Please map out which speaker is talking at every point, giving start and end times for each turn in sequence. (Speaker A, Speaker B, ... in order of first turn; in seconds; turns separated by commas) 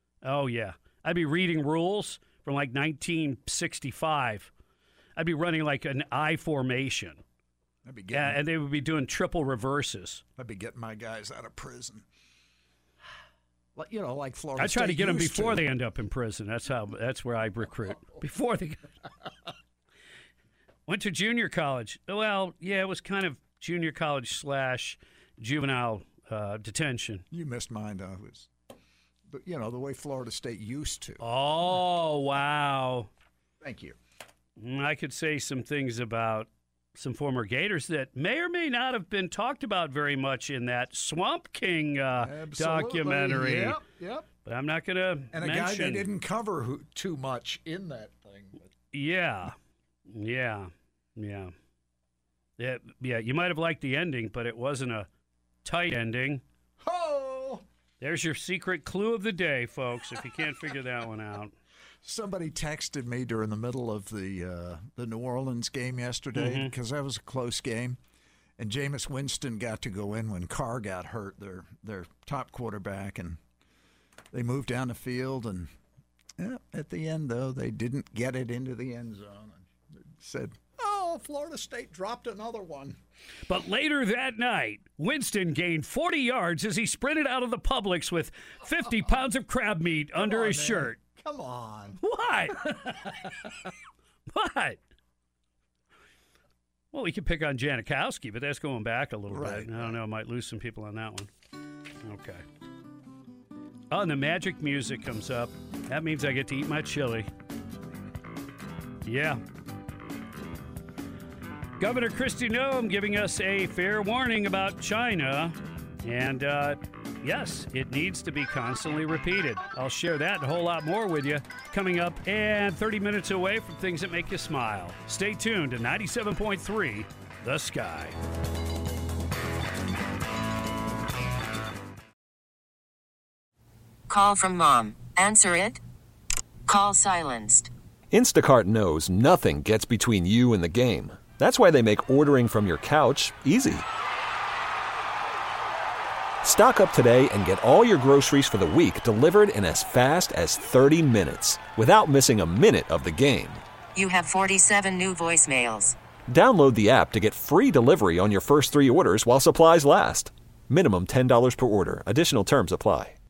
Speaker A: 0.2-4.5, Speaker A: 5.2-7.2, Speaker B: 7.8-8.4, Speaker A: 8.1-10.2, Speaker B: 10.4-12.1, Speaker B: 13.7-15.6, Speaker A: 14.6-18.9, Speaker A: 20.9-27.2, Speaker B: 27.3-28.5, Speaker B: 29.3-31.2, Speaker A: 31.2-33.1, Speaker B: 33.6-34.0, Speaker A: 34.6-43.8, Speaker B: 42.2-44.3, Speaker A: 44.4-46.1, Speaker B: 45.3-48.6, Speaker A: 48.9-49.5, Speaker A: 50.1-51.5, Speaker A: 52.6-55.1, Speaker A: 55.6-56.4, Speaker B: 56.8-57.6, Speaker A: 58.0-61.5, Speaker B: 62.0-68.0, Speaker A: 66.3-66.7, Speaker B: 68.6-73.4, Speaker B: 74.3-75.7, Speaker B: 76.4-83.0, Speaker A: 83.5-91.0, Speaker B: 90.2-92.0, Speaker A: 92.0-93.5, Speaker A: 94.3-94.8, Speaker A: 96.9-101.3, Speaker B: 99.3-100.0, Speaker A: 102.0-102.4, Speaker A: 103.9-107.3, Speaker A: 109.0-109.4, Speaker A: 111.8-128.2, Speaker C: 134.1-135.8, Speaker C: 136.7-137.7, Speaker D: 138.1-143.8, Speaker D: 146.4-153.6, Speaker C: 153.9-155.9, Speaker D: 156.3-163.2